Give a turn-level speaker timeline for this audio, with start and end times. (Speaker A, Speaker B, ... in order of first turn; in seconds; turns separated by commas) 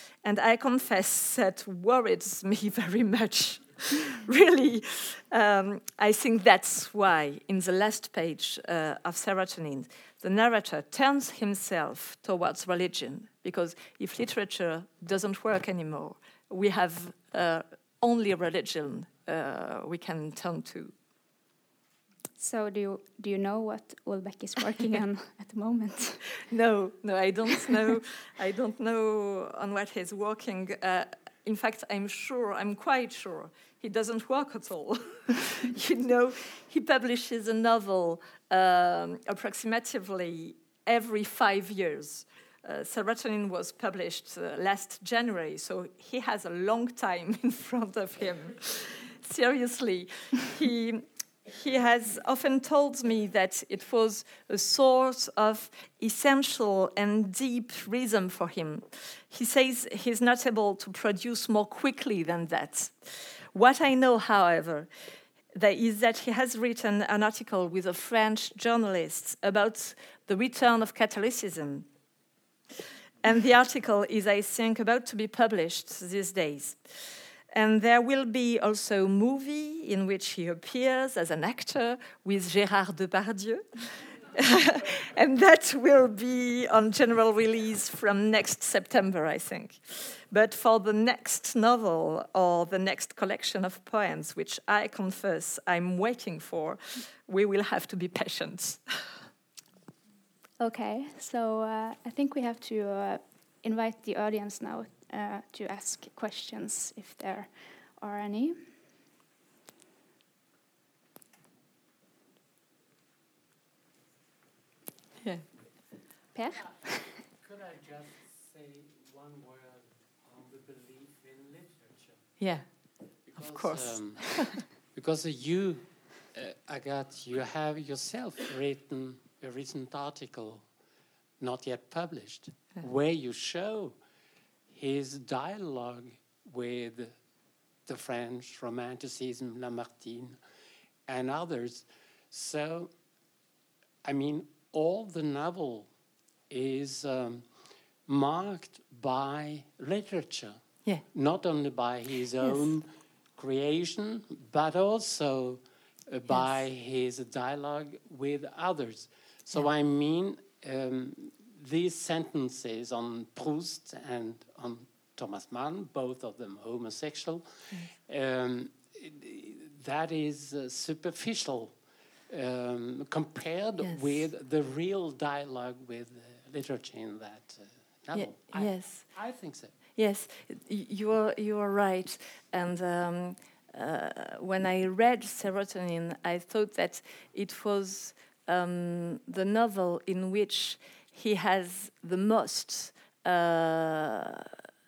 Speaker A: 0.2-20.9, Speaker B: 22.4-26.4, Speaker A: 26.5-64.9, Speaker A: 65.5-71.9, Speaker A: 73.2-76.8, Speaker A: 77.5-98.8, Speaker B: 100.6-108.6, Speaker A: 115.2-115.5, Speaker B: 116.3-117.2, Speaker C: 116.6-122.2, Speaker A: 122.4-122.7, Speaker C: 123.3-130.7, Speaker A: 123.3-124.6, Speaker C: 131.4-134.0, Speaker C: 134.7-137.1, Speaker C: 137.8-140.4, Speaker C: 141.1-142.9, Speaker C: 144.0-145.9, Speaker C: 146.5-147.5, Speaker C: 148.1-179.7, Speaker A: 173.8-174.1, Speaker A: 178.1-179.2, Speaker A: 179.9-194.5